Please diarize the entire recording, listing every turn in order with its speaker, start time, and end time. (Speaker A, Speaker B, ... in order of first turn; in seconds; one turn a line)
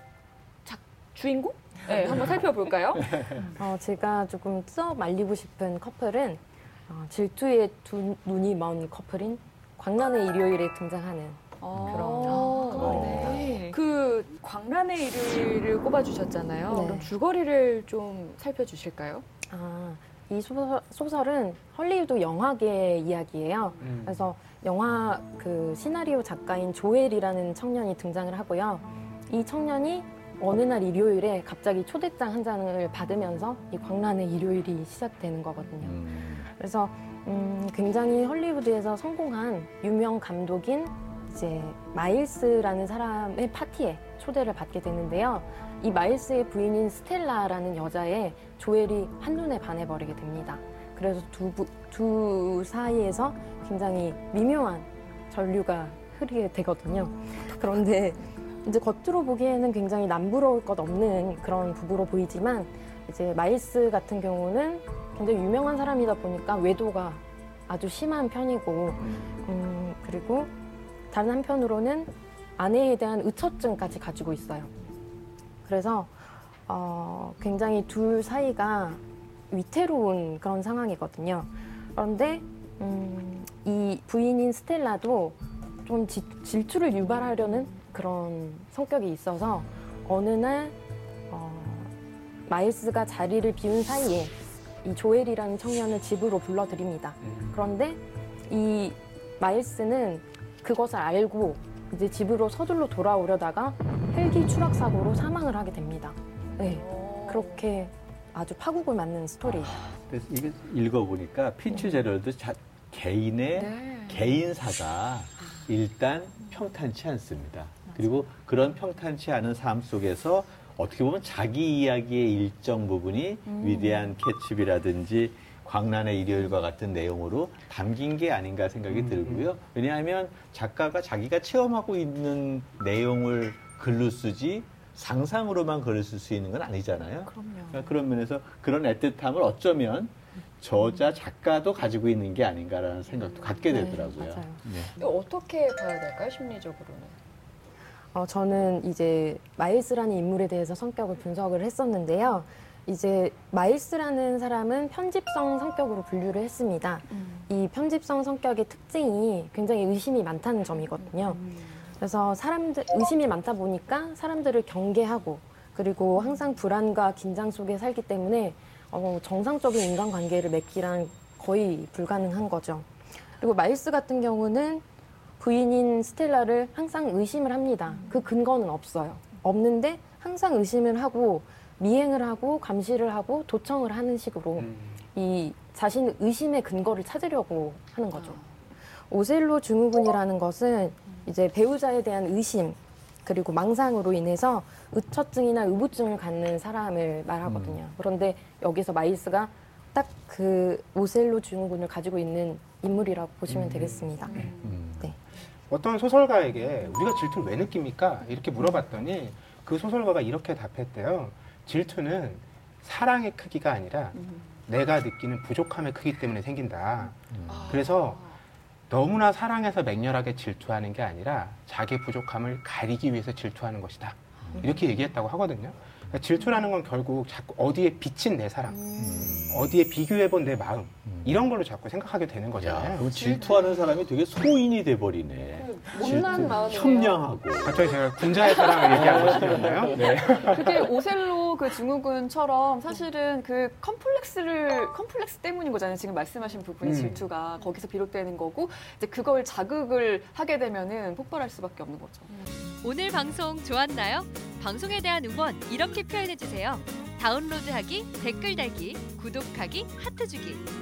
Speaker A: 0.7-3.4
Speaker B: 3.3-13.6
Speaker A: 11.6-19.2
Speaker C: 11.7-13.6
Speaker B: 16.7-17.1
Speaker B: 19.5-70.5
Speaker D: 23.8-24.2
Speaker C: 35.8-36.5
Speaker B: 71.1-74.7
Speaker B: 75.6-90.8
Speaker B: 91.3-91.9
Speaker B: 92.5-109.8
Speaker C: 106.4-106.8
Speaker A: 106.9-107.5
Speaker C: 109.4-144.9
Speaker A: 113.6-114.2
Speaker A: 123.6-123.9
Speaker D: 128.9-129.5
Speaker B: 143.7-144.6
Speaker A: 145.0-147.2
Speaker B: 148.1-174.8
Speaker B: 175.4-205.2
Speaker D: 184.6-185.0
Speaker C: 197.5-197.8
Speaker D: 203.5-204.6
Speaker A: 204.3-204.6
Speaker C: 204.6-205.1
Speaker D: 205.7-218.3
Speaker C: 217.3-217.8
Speaker A: 217.5-218.3
Speaker D: 218.9-233.1
Speaker C: 228.9-229.8
Speaker C: 231.1-231.4
Speaker C: 232.6-237.9
Speaker A: 233.2-233.7
Speaker A: 235.6-237.3
Speaker D: 237.6-240.9
Speaker A: 238.4-252.3
Speaker C: 238.9-240.3
Speaker D: 246.8-247.3
Speaker E: 252.8-260.6